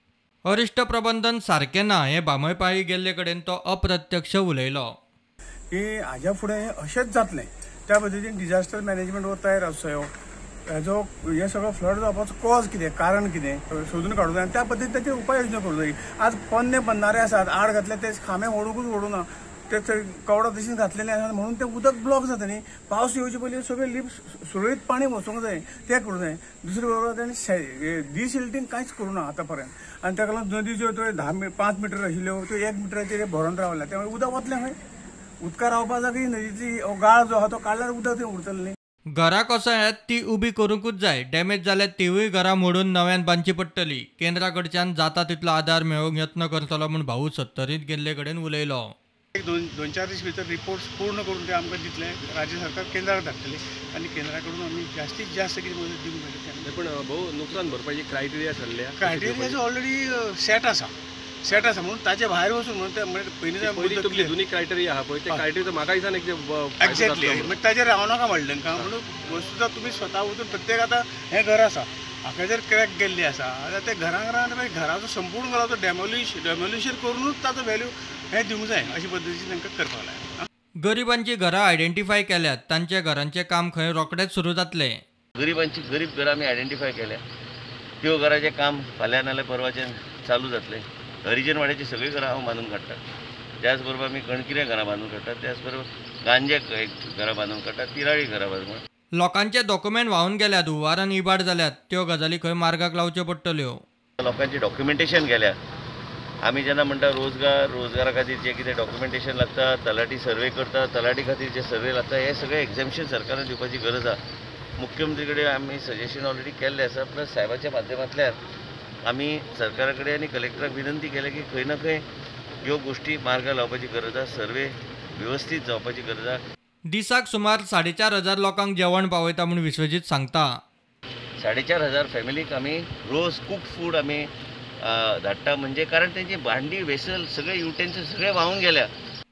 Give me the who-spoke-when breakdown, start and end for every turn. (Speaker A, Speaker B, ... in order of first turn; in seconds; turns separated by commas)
Speaker A: 0.4-4.9, Speaker B: 5.7-10.1, Speaker B: 10.7-34.8, Speaker B: 35.4-38.8, Speaker A: 39.1-48.9, Speaker B: 49.4-56.8, Speaker C: 56.6-59.6, Speaker B: 59.0-64.4, Speaker C: 63.6-67.5, Speaker B: 66.8-80.5, Speaker A: 80.8-85.0, Speaker D: 85.4-87.2, Speaker D: 88.0-93.0, Speaker D: 93.6-98.8, Speaker A: 99.2-103.8, Speaker D: 104.2-105.6, Speaker D: 106.4-114.2, Speaker D: 114.8-118.4, Speaker D: 119.0-122.0, Speaker D: 122.6-126.4, Speaker A: 126.9-130.5, Speaker D: 131.4-134.3, Speaker D: 134.8-138.9